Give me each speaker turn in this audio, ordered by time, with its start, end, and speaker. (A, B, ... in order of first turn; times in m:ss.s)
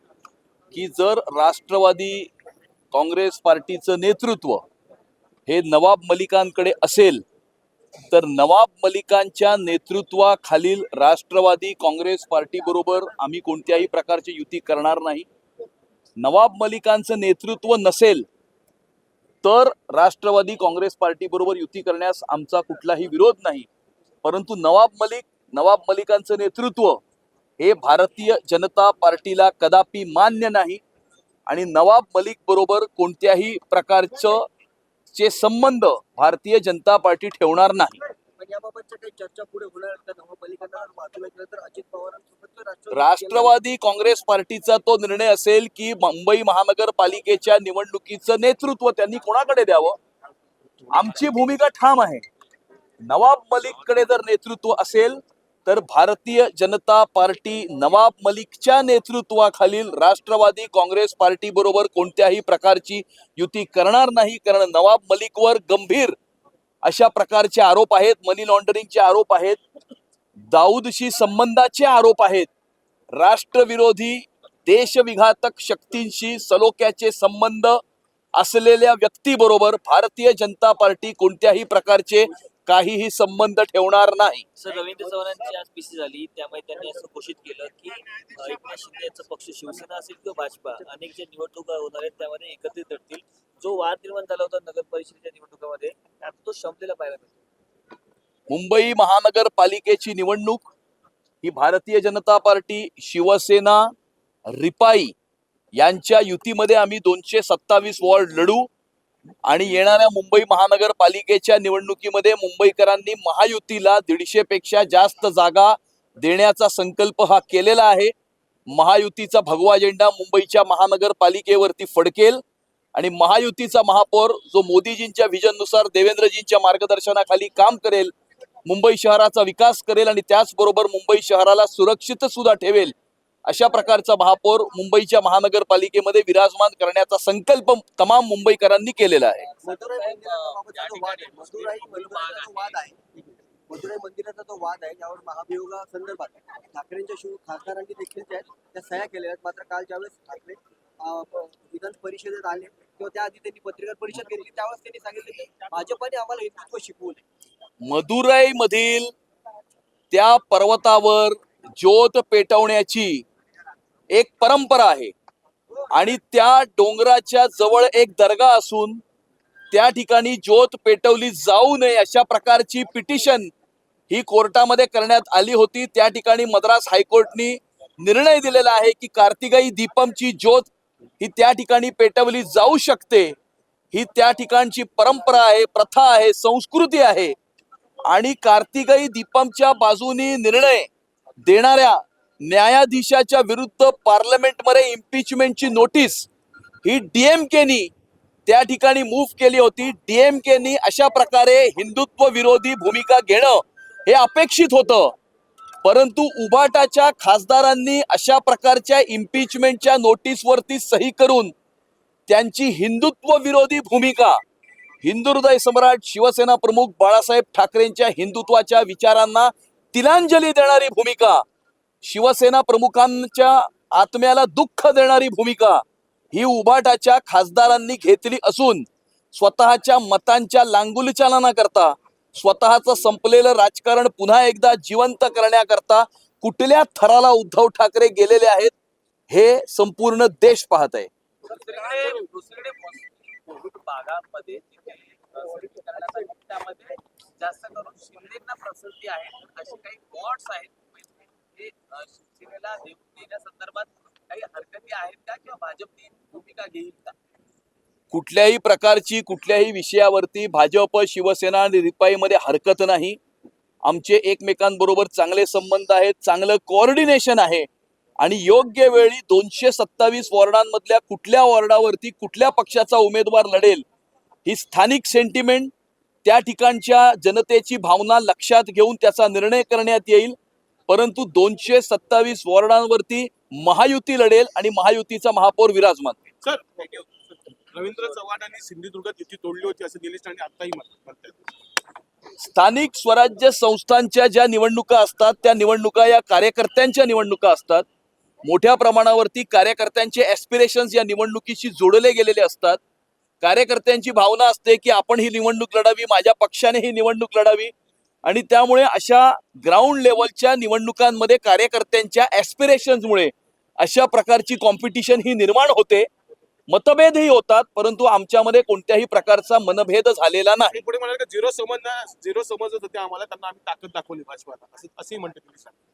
0:00.7-0:02.3 A
0:02.9-0:04.6 A
0:05.5-0:07.2 A
0:08.1-0:15.3 A
0:16.2-0:18.2 A
0:19.4-0:23.7 A
0:24.2-0:27.0 A
0:27.6-0:30.8 A
0:31.5-0:34.5 A
0:35.1-0:38.0 A
0:38.2-0:43.6 B
0:42.9-0:50.0 A
0:50.9-0:52.2 A
0:53.0-1:06.2 A
1:06.8-1:09.6 A
1:10.5-1:12.5 A
1:13.1-1:17.8 A
1:18.4-1:24.4 A
1:24.6-1:37.4 C
1:38.5-1:40.6 A
1:41.4-1:43.9 A
1:44.5-1:45.1 A
1:45.7-1:48.7 A
1:49.4-1:58.1 A
1:58.7-2:02.4 A
2:02.9-2:08.1 A
2:08.6-2:12.9 A
2:13.4-2:19.5 A
2:19.6-2:37.2 B
2:19.6-2:22.6 C
2:37.8-2:39.1 A
2:40.1-2:43.2 A
2:44.1-2:45.1 A
2:45.9-2:49.0 A
2:49.7-2:53.5 A
2:54.1-3:03.3 A
3:03.9-3:07.3 A
3:08.1-3:10.9 A
3:11.4-3:16.3 A
3:16.8-3:17.9 A
3:18.4-3:25.2 A
3:25.8-3:31.5 A
3:32.3-3:34.4 A
3:35.0-3:41.4 A
3:42.0-3:58.7 A
3:59.3-4:01.1 A
4:01.4-4:17.1 C
4:18.1-4:23.2 A
4:23.8-4:27.7 A
4:28.2-4:33.8 A
4:34.4-4:35.7 A
4:36.2-4:40.4 A
4:40.9-4:46.2 A
4:46.4-4:51.4 D
4:52.4-4:57.8 A
4:58.4-5:02.8 A
5:03.4-5:07.7 A
5:08.2-5:16.1 A
5:16.7-5:20.8 A
5:20.7-5:25.7 D